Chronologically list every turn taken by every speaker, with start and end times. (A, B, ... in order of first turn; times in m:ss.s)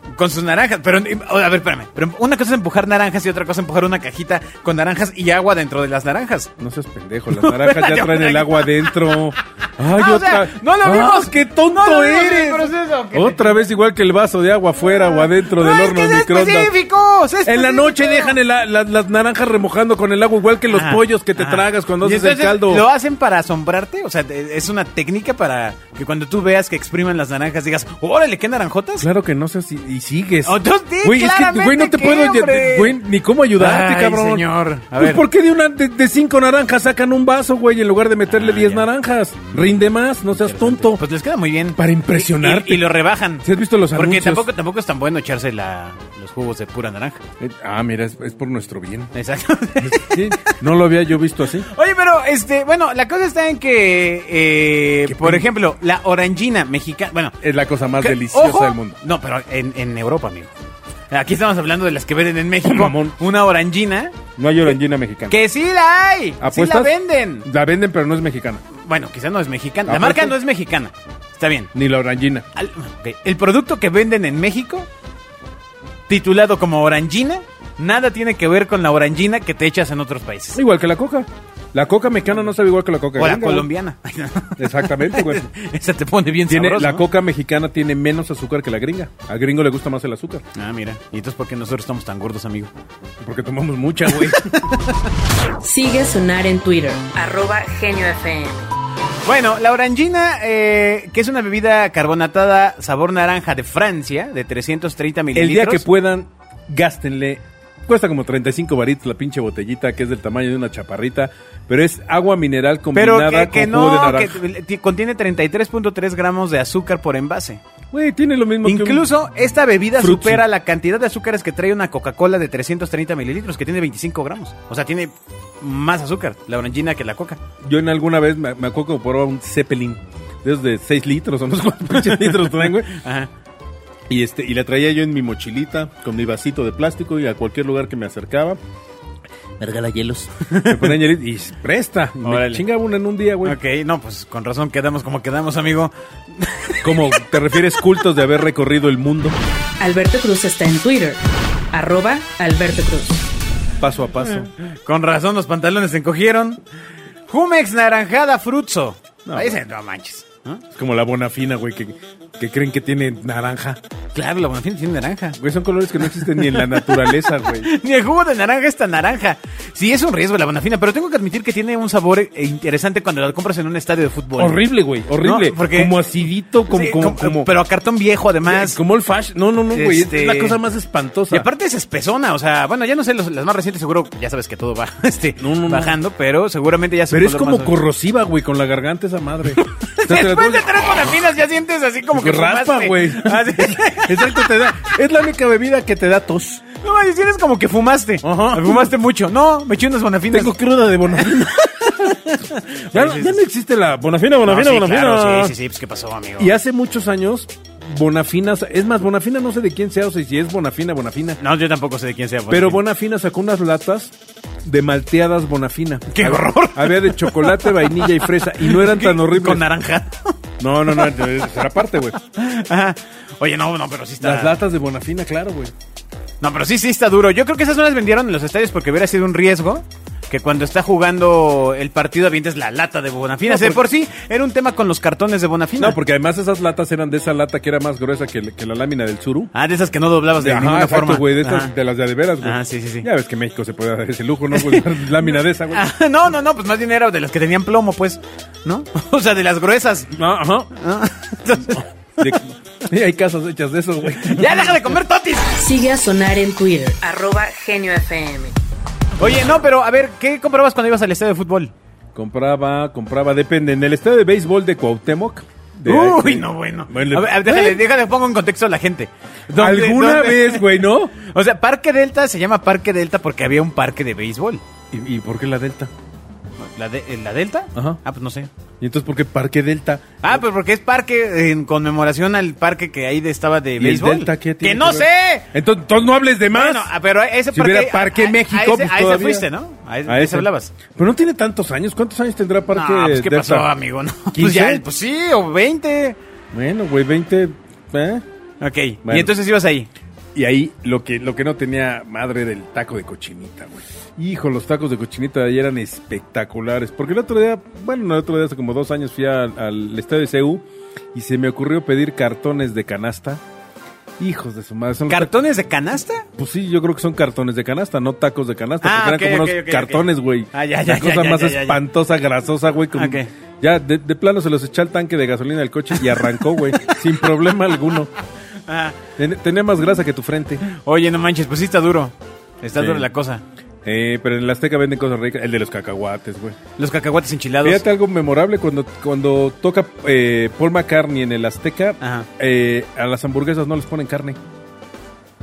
0:00.1-0:06.5 A
0:06.6-0:16.7 B
0:07.3-0:13.6 A
0:14.8-0:18.4 A
0:17.4-0:22.8 B
0:20.7-0:29.1 A
0:29.0-0:41.0 B
0:30.5-0:33.0 A
0:33.6-0:35.2 A
0:38.3-0:38.9 A
0:39.4-0:39.7 A
0:40.3-0:47.2 A
0:41.8-0:42.9 B
0:43.4-0:44.5 B
0:47.4-0:49.2 B
0:49.2-0:50.6 A
0:49.8-0:51.7 B
0:51.7-0:57.4 A
0:55.1-0:55.5 B
0:57.4-0:59.0 B
0:58.0-1:00.5 A
1:01.1-1:04.3 A
1:02.6-1:03.2 B
1:04.4-1:05.4 B
1:05.3-1:07.5 A
1:06.4-1:08.6 B
1:08.8-1:11.7 A
1:09.9-1:10.4 B
1:11.7-1:12.4 B
1:12.6-1:14.9 A
1:16.1-1:20.6 A
1:20.6-1:23.7 B
1:23.2-1:27.0 A
1:24.6-1:25.5 B
1:26.5-1:30.4 B
1:30.6-1:32.7 A
1:33.2-1:34.6 B
1:34.1-1:34.8 A
1:35.6-1:38.7 C
1:39.2-1:45.8 A
1:45.4-1:54.4 B
1:52.9-1:57.6 A
1:57.9-1:59.1 B
1:58.6-2:07.4 A
2:00.0-2:00.4 B
2:07.6-2:13.0 B
2:12.0-2:13.3 A
2:14.1-2:18.6 B
2:19.6-2:23.6 B
2:20.4-2:21.0 A
2:22.2-2:22.6 A
2:23.4-2:27.3 A
2:26.8-2:29.4 B
2:29.8-2:31.2 C
2:31.7-2:33.2 C
2:33.8-2:34.5 B
2:34.8-2:36.6 A
2:37.3-2:40.6 A
2:39.3-2:39.6 B
2:40.7-2:43.8 B
2:44.1-2:45.4 A
2:45.4-2:47.7 B
2:46.0-2:54.6 A
2:54.4-2:57.5 B
2:55.2-2:56.0 A
2:56.7-2:58.8 A
2:58.4-3:01.5 B
2:59.7-3:00.6 A
3:01.3-3:07.8 A
3:05.4-3:06.0 B
3:07.1-3:10.9 B
3:09.6-3:14.6 A
3:12.1-3:16.6 B
3:16.8-3:20.5 A
3:18.2-3:18.9 B
3:20.3-3:22.4 B
3:21.2-3:23.4 A
3:22.9-3:25.6 B
3:24.5-3:26.5 A
3:26.4-3:31.4 B
3:31.4-3:32.8 A
3:32.5-3:39.7 B
3:36.1-3:40.4 A
3:40.6-3:42.2 B
3:42.4-3:44.6 A
3:44.2-3:45.7 B
3:46.4-3:56.0 A
3:53.5-3:53.8 B
3:55.8-3:59.5 B
3:59.5-4:01.7 A
4:00.4-4:05.9 B
4:02.4-4:03.1 A
4:04.5-4:04.9 A
4:05.7-4:10.1 A
4:10.1-4:10.7 B
4:10.8-4:12.4 A
4:12.2-4:15.0 B
4:14.3-4:15.6 A
4:15.5-4:18.6 C
4:19.2-4:21.7 A
4:22.2-4:27.8 B
4:25.9-4:34.6 A
4:29.6-4:31.2 B
4:34.9-4:35.9 B
4:36.6-4:38.5 A
4:38.8-4:40.4 B
4:40.2-4:45.5 A
4:43.8-4:46.9 B
4:46.5-4:50.8 A
4:47.5-4:49.5 B
4:50.1-4:53.7 B
4:52.7-4:56.2 A
4:54.3-4:54.8 B
4:56.5-4:58.2 B
4:58.6-4:59.9 A
4:59.0-4:59.3 B
5:00.4-5:13.4 B
5:14.2-5:15.3 B
5:15.1-5:16.3 A
5:16.4-5:28.1 B
5:18.8-5:21.8 A
5:23.0-5:23.3 A
5:26.0-5:27.0 A
5:28.7-5:29.0 A
5:29.2-5:30.6 B
5:30.7-5:33.4 A
5:32.8-5:33.1 B
5:33.8-5:36.6 B
5:36.8-5:37.8 A
5:37.6-5:44.4 B
5:42.0-5:42.3 A